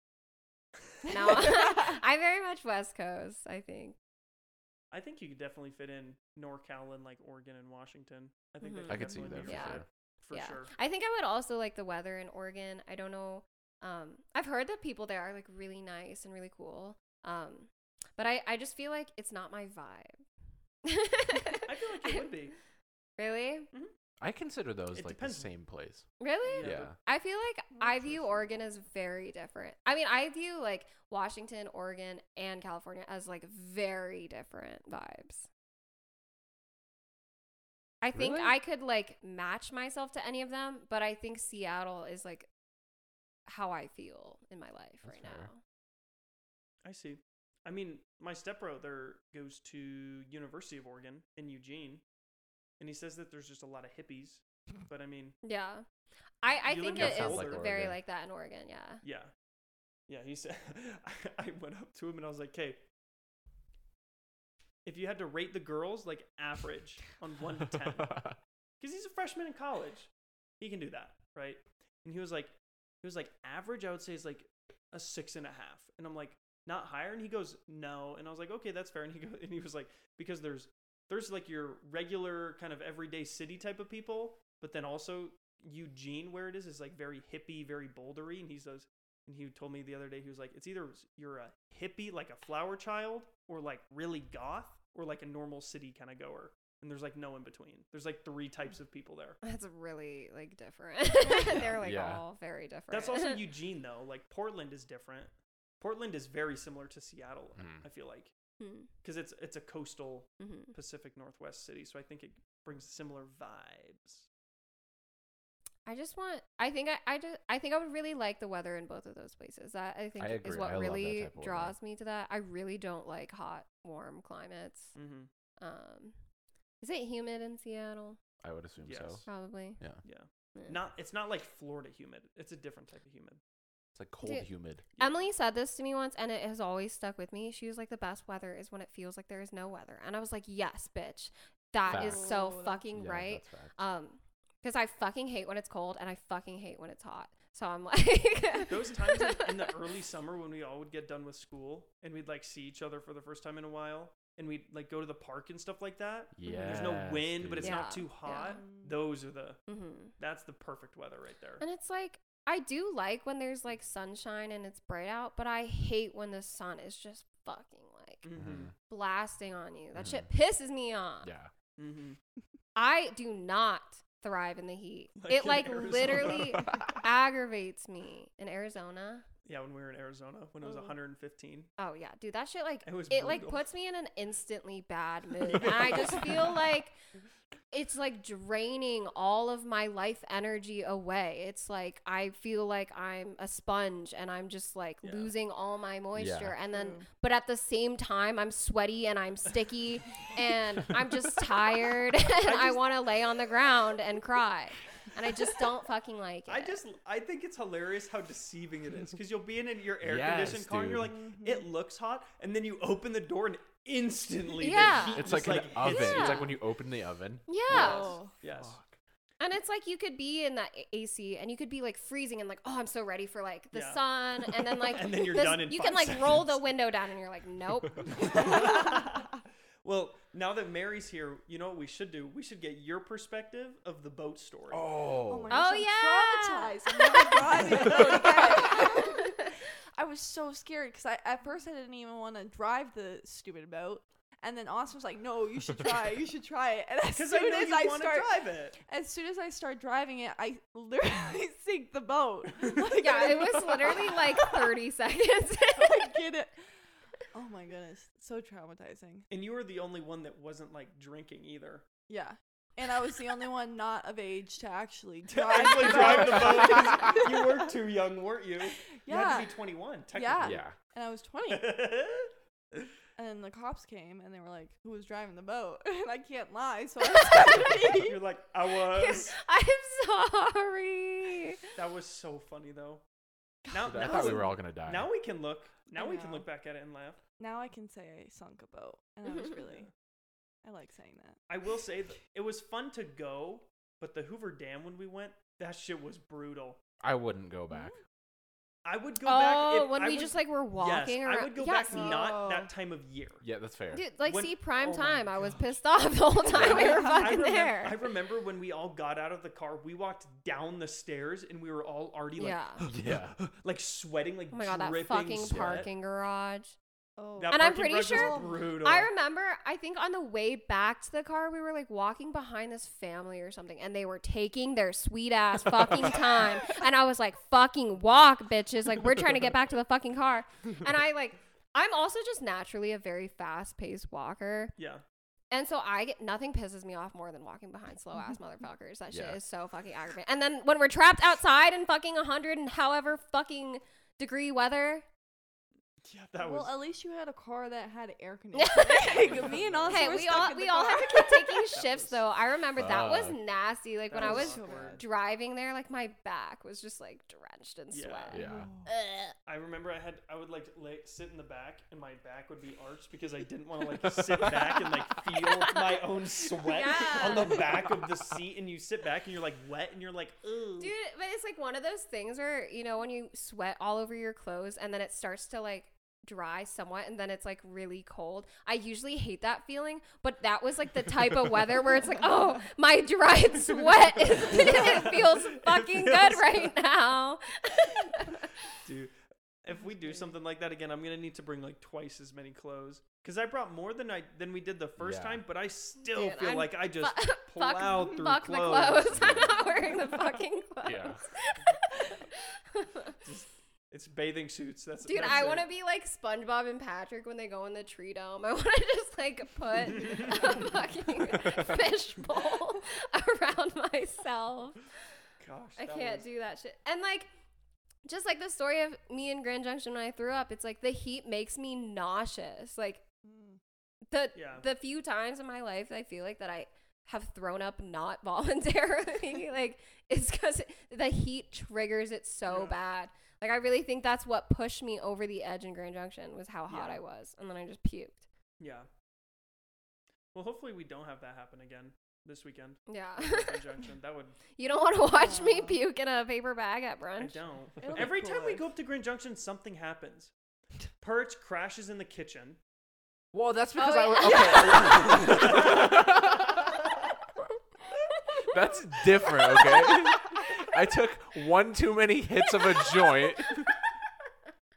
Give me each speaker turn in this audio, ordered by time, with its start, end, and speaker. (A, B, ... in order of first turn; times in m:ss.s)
0:01.0-0:04.0 A
0:04.9-0:10.7 B
0:08.6-0:20.2 A
0:08.9-0:09.8 C
0:20.8-0:22.2 A
0:21.6-0:22.5 B
0:23.2-0:23.7 A
0:24.2-0:26.1 C
0:24.9-0:25.5 B
0:26.2-0:35.5 A
0:26.4-0:26.9 B
0:26.6-0:26.9 C
0:38.0-0:42.5 A
0:38.1-0:38.5 C
0:43.5-0:45.6 A
0:45.0-0:45.5 C
0:46.8-0:52.0 B
0:52.8-0:55.4 B
0:55.4-0:55.8 A
0:56.4-0:59.0 A
0:56.6-0:57.7 B
0:56.9-0:58.0 C
0:59.0-0:59.3 B
1:00.1-1:02.8 B
1:04.8-1:39.4 B
1:39.4-1:43.4 A
1:41.8-1:42.2 C
1:42.9-1:48.3 B
1:47.6-1:47.8 C
1:48.6-1:48.9 A
1:49.0-1:54.3 B
1:50.4-1:50.7 A
1:55.8-2:04.9 A
2:00.2-2:01.7 C
2:05.0-2:05.3 B
2:05.6-2:06.2 A
2:06.8-2:08.2 A
2:08.4-2:09.2 C
2:08.8-2:09.3 B
2:09.3-2:09.8 A
2:10.0-2:13.4 B
2:13.9-2:14.9 C
2:14.2-2:29.7 A
2:21.9-2:22.3 C
2:21.9-2:22.8 D
2:22.9-2:23.8 C
2:28.7-2:39.6 B
2:36.4-2:37.9 C
2:36.4-2:36.9 A
2:37.6-2:38.6 A
2:38.3-2:38.9 D
2:39.7-2:40.1 A
2:40.2-2:41.6 B
2:41.6-2:48.2 A
2:48.2-2:48.7 B
2:48.4-2:48.7 C
2:48.9-2:51.3 A
2:49.9-2:50.3 C
2:51.2-2:51.5 C
2:51.8-2:52.2 B
2:52.7-2:59.2 A
2:55.2-2:56.8 B
2:59.4-3:01.7 B
3:01.8-3:06.9 A
3:02.8-3:03.6 B
3:05.6-3:06.3 B
3:07.7-3:26.8 A
3:15.0-3:15.3 B
3:16.2-3:16.6 C
3:16.7-3:17.0 D
3:22.4-3:22.8 B
3:26.5-3:36.5 B
3:30.0-3:31.1 C
3:31.0-3:31.7 D
3:34.6-3:36.5 A
3:34.8-3:38.0 C
3:37.5-3:38.1 A
3:37.7-3:38.8 B
3:37.7-3:38.3 D
3:38.6-3:38.9 C
3:39.4-3:48.6 A
3:43.7-3:46.6 B
3:48.1-3:49.3 B
3:49.8-3:54.9 B
3:54.7-3:55.6 C
3:55.3-4:14.7 D
3:55.5-3:59.5 A
3:57.8-3:58.4 B
4:07.2-4:08.8 B
4:12.6-4:12.9 B
4:13.0-4:16.2 A
4:15.8-4:16.6 D
4:17.3-4:19.3 D
4:19.3-4:21.8 B
4:22.1-4:27.5 D
4:25.3-4:30.6 B
4:29.0-4:29.5 D
4:30.1-4:31.9 D
4:30.4-4:30.8 C
4:31.4-4:32.8 B
4:33.2-4:38.2 D
4:37.0-4:38.0 A
4:37.9-4:39.4 B
4:38.6-4:41.7 A
4:41.7-4:43.0 B
4:43.7-4:47.2 B
4:43.7-4:44.5 D
4:43.8-4:45.1 C
4:46.0-4:46.4 D
4:47.4-4:49.9 D
4:49.6-4:49.9 B
4:50.6-4:51.4 D
4:51.5-4:56.8 B
4:57.0-4:57.9 C
4:57.7-4:58.0 D
4:58.8-5:03.4 B
4:59.2-5:02.4 A
5:01.9-5:02.7 D
5:03.4-5:04.0 C
5:03.9-5:08.0 A
5:04.2-5:05.8 B
5:06.4-5:15.9 B
5:06.5-5:07.0 C
5:12.4-5:12.9 A
5:12.8-5:13.4 C
5:14.5-5:16.8 A
5:15.5-5:15.8 C
5:17.2-5:18.4 D
5:17.4-5:19.1 B
5:17.5-5:34.7 A
5:34.8-5:35.0 B
5:35.5-5:45.0 A
5:39.1-5:39.4 C
5:46.0-5:46.7 B
5:46.4-5:51.7 D
5:48.5-5:59.3 A
5:49.1-5:50.5 B
5:51.7-5:52.2 B
5:52.8-5:53.4 C
5:54.1-5:55.0 B
5:54.2-5:55.0 D
5:57.9-5:58.3 B
5:58.3-5:58.7 C
5:58.3-5:58.9 D
5:59.4-6:10.9 B
6:06.6-6:07.8 A
6:10.8-6:28.5 A
6:24.1-6:26.7 B
6:28.8-6:39.4 B
6:35.0-6:35.4 C
6:36.0-6:43.2 A
6:39.0-6:39.6 C
6:40.8-6:41.2 C
6:43.2-6:45.7 B
6:45.0-6:54.8 A
6:55.4-6:56.2 B
6:55.8-6:57.3 A
6:58.0-7:03.0 A
7:03.2-7:03.6 D
7:04.1-7:18.2 A
7:04.3-7:04.6 B
7:12.5-7:12.8 B
7:16.7-7:17.0 B
7:18.6-7:18.9 B
7:20.3-7:24.4 B
7:22.9-7:23.7 A
7:24.6-7:27.4 A
7:25.1-7:25.8 D
7:27.2-7:30.3 B
7:27.8-7:28.6 D
7:31.0-7:32.6 B
7:33.3-7:36.7 C
7:33.8-7:35.4 A
7:35.2-7:35.8 B
7:38.4-7:43.8 C
7:39.5-7:40.1 A